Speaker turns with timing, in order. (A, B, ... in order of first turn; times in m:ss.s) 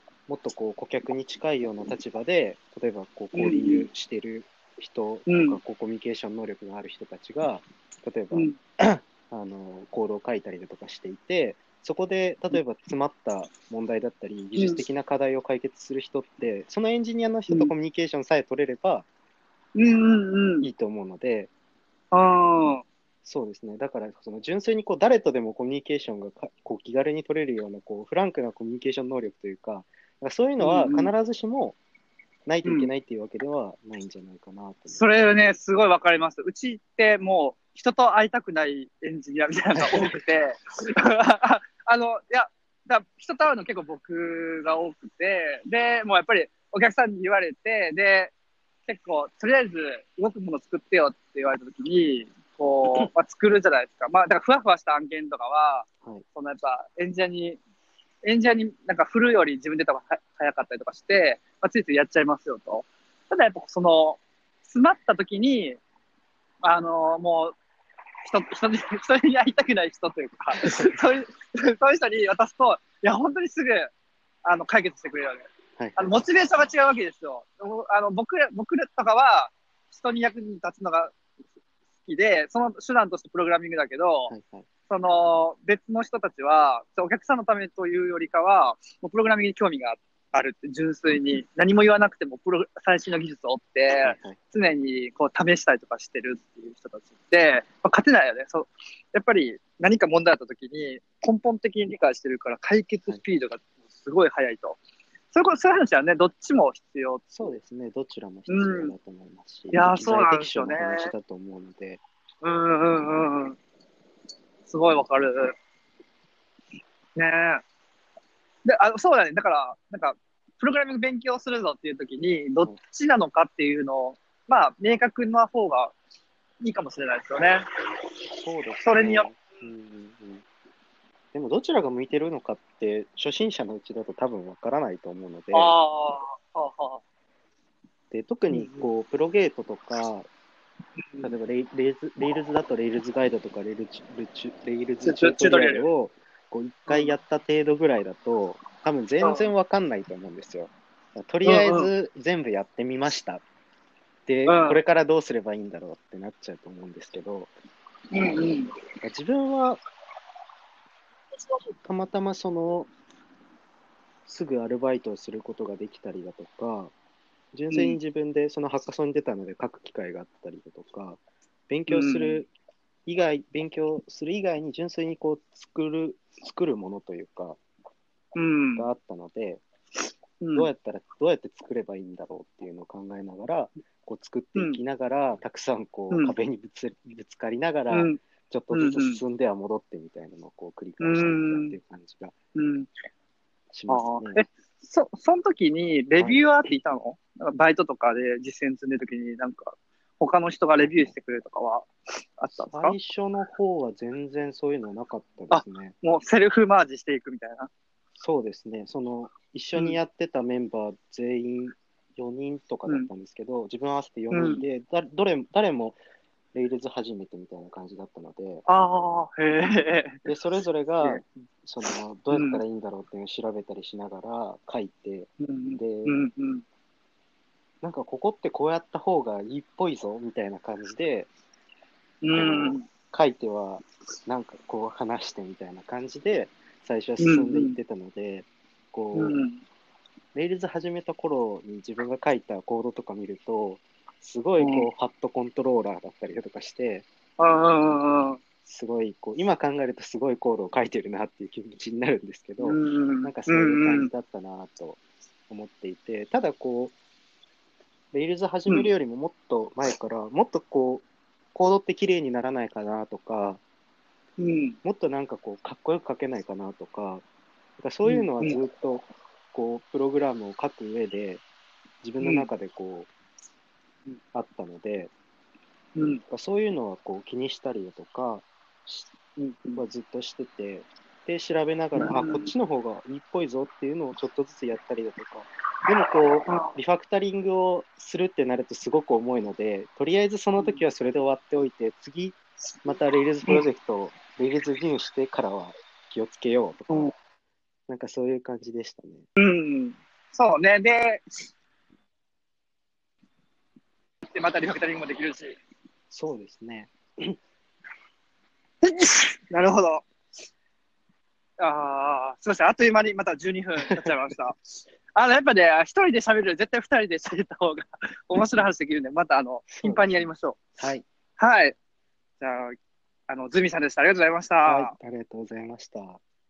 0:00.3-0:19.1 A
0:03.3-0:03.9 B
0:05.3-0:05.6 B
0:08.3-0:08.6 B
0:14.6-0:14.8 B
0:19.8-0:20.7 B
0:20.6-0:21.5 A
0:22.1-0:22.8 B
0:23.2-0:31.8 A
0:30.6-0:31.1 B
0:32.5-0:35.1 A
0:32.6-0:32.9 B
0:34.9-0:48.3 B
0:39.8-0:40.2 A
0:48.9-0:57.6 B
0:58.2-1:05.8 B
1:06.6-1:07.6 B
1:08.2-1:13.9 B
1:10.6-1:10.9 A
1:14.4-1:15.5 B
1:15.8-1:16.3 A
1:16.0-1:21.2 B
1:22.0-1:24.3 B
1:24.3-1:24.7 A
1:24.9-1:44.8 B
1:34.0-1:34.4 A
1:45.3-1:47.2 B
1:47.3-1:52.0 A
1:48.5-1:48.9 B
1:49.7-1:51.1 B
1:52.4-1:53.6 B
1:54.7-1:55.6 B
1:57.2-1:57.6 B
1:58.6-2:05.9 B
2:06.6-2:07.7 B
2:08.4-2:10.4 A
2:08.8-2:09.4 B
2:11.3-2:15.8 A
2:15.5-2:17.0 B
2:18.1-2:20.3 A
2:18.5-2:18.9 B
2:21.0-2:21.3 B
2:21.2-2:33.4 A
2:25.0-2:25.9 B
2:26.9-2:27.2 B
2:29.2-2:29.5 B
2:31.4-2:31.9 B
2:34.3-2:37.5 A
2:34.5-2:34.8 B
2:38.1-2:38.7 B
2:39.0-2:39.8 A
2:41.8-2:42.9 A
2:44.3-2:46.9 A
2:47.5-2:52.5 A
2:47.7-2:48.0 B
2:51.9-2:52.4 B
2:53.1-2:57.6 A
2:58.4-2:58.9 B
2:58.8-2:59.6 A
3:00.4-3:00.7 B
3:00.5-3:12.4 A
3:07.9-3:08.2 B
3:08.7-3:09.2 B
3:11.0-3:11.8 B
3:12.6-3:12.9 B
3:13.7-3:14.4 A
3:13.9-3:23.0 B
3:16.2-3:16.4 A
3:20.8-3:21.1 A
3:22.6-3:26.0 A
3:25.5-3:27.7 B
3:28.2-3:36.0 A
3:34.3-3:34.6 B
3:36.5-3:38.6 A
3:38.7-3:40.2 B
3:40.2-3:46.2 A
3:42.3-3:42.6 B
3:45.4-3:46.6 B
3:47.8-3:51.3 A
3:52.2-3:52.9 B
3:52.3-3:59.4 A
3:57.2-3:57.8 B
3:59.1-3:59.6 B
4:00.3-4:07.1 A
4:04.6-4:04.9 B
4:07.4-4:08.4 B
4:08.6-4:17.0 A
4:12.6-4:14.1 B
4:18.1-4:23.6 A
4:24.4-4:24.8 B
4:24.8-4:27.2 A
4:27.8-4:31.4 A
4:28.0-4:28.6 B
4:32.0-4:33.1 A
4:32.2-4:32.5 B
4:34.3-4:35.1 A
4:36.0-4:36.2 B
4:36.3-4:39.2 A
4:39.4-4:39.8 B
4:39.8-4:57.1 A
4:42.0-4:42.5 B
4:46.5-4:46.7 B
4:50.6-4:50.8 B
4:57.9-4:59.3 A
4:59.4-5:01.5 B
5:04.2-5:05.6 B
5:06.1-5:07.4 A
5:08.8-5:10.0 B
5:11.6-5:20.6 B
5:19.7-5:21.1 A
5:21.4-5:21.8 B
5:22.4-5:22.8 B
5:23.3-5:25.0 B
5:24.6-5:26.2 A